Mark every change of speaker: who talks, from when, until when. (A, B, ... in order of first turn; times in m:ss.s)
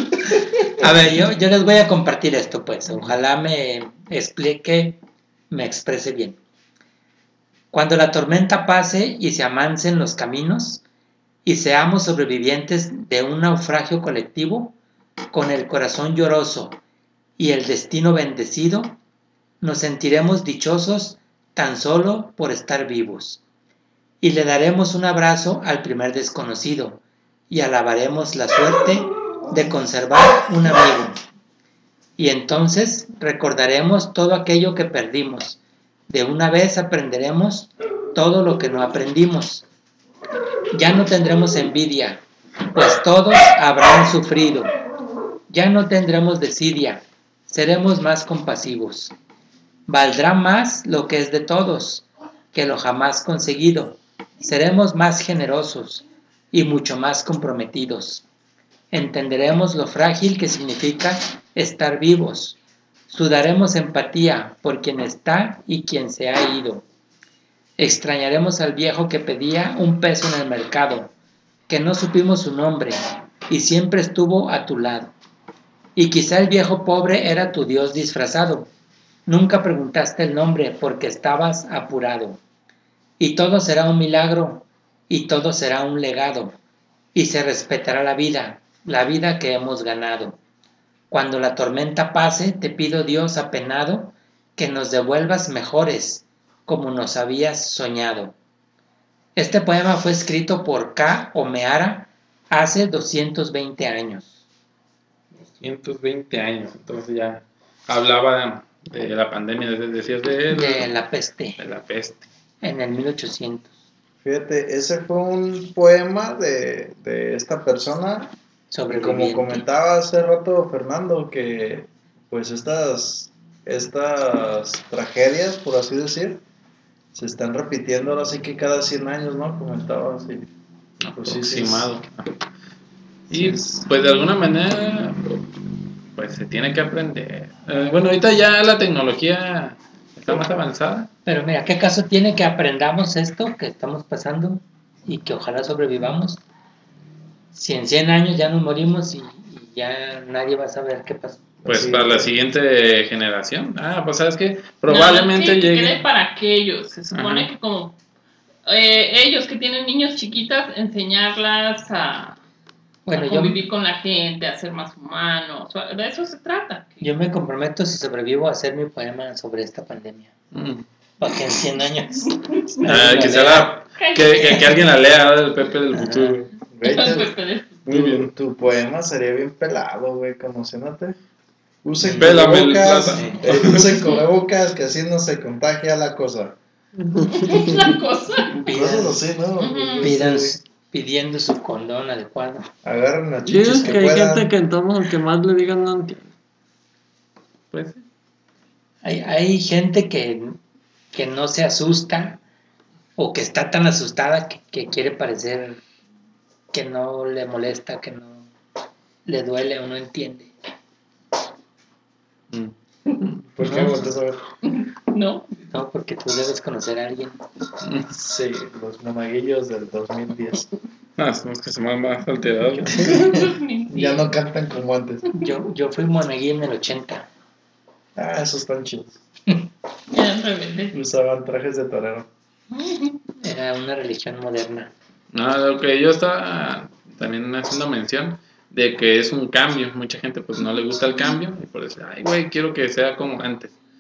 0:00.3-0:01.2 A
0:00.8-0:05.0 B
0:05.5-0:06.4 B
0:07.7-0:10.8 B
0:11.4-0:14.8 B
0:15.3-0:16.8 B
0:17.4-0:19.0 B
0:19.6-0:23.4 B
0:24.2-0:31.2 B
0:32.2-0:39.6 B
0:40.7-0:42.2 B
0:42.8-0:44.7 B
0:45.5-0:49.1 B
0:49.9-0:58.2 B
0:58.9-1:02.6 B
1:03.1-1:06.8 B
1:07.8-1:11.1 B
1:11.7-1:15.1 B
1:16.0-1:18.7 B
1:19.3-1:22.4 B
1:23.2-1:26.6 B
1:27.1-1:30.4 B
1:31.1-1:38.4 B
1:39.4-1:44.3 B
1:45.4-1:50.9 C
1:50.5-1:51.6 B
1:51.6-1:52.3 C
1:52.6-1:53.7 B
1:54.2-1:58.3 A
1:58.7-1:59.6 B
1:58.9-2:06.4 A
2:07.2-2:10.5 A
2:11.0-2:12.4 C
2:11.2-2:11.9 A
2:13.3-2:13.9 A
2:13.3-2:15.4 C
2:16.2-2:21.1 C
2:21.3-2:26.4 B
2:27.5-2:31.4 B
2:31.6-2:32.3 A
2:31.6-2:36.0 C
2:34.9-2:38.0 D
2:37.1-2:37.5 C
2:38.7-2:42.4 D
2:43.1-2:43.6 B
2:43.1-2:47.1 D
2:47.0-2:50.3 B
2:50.5-2:50.9 C
2:51.2-2:53.8 B
2:52.8-2:56.5 C
2:54.0-2:55.0 D
2:56.0-2:56.4 B
2:56.7-2:57.4 A
2:56.8-2:57.8 D
2:57.9-2:58.3 C
2:57.9-3:01.2 A
3:01.8-3:06.6 A
3:02.0-3:02.3 B
3:02.1-3:04.0 C
3:03.1-3:03.4 B
3:07.0-3:07.9 E
3:07.3-3:08.5 D
3:08.5-3:09.2 B
3:08.6-3:10.6 A
3:09.6-3:10.1 D
3:10.0-3:12.7 B
3:12.8-3:14.5 A
3:13.4-3:16.3 E
3:17.7-3:18.0 C
3:19.0-3:20.6 B
3:21.1-3:22.4 B
3:23.2-3:25.8 B
3:26.7-3:28.5 B
3:29.3-3:30.5 B
3:32.5-3:34.1 C
3:33.6-3:34.4 A
3:33.6-3:34.0 B
3:34.6-3:35.5 D
3:35.7-3:37.4 B
3:37.8-3:38.1 C
3:38.1-3:40.7 A
3:41.2-3:43.5 C
3:42.9-3:45.2 A
3:43.3-3:44.3 D
3:45.3-3:47.3 B
3:48.2-3:49.2 A
3:50.1-3:51.0 D
3:50.9-3:52.3 A
3:52.7-3:53.2 D
3:53.4-3:54.9 B
3:55.3-4:03.7 C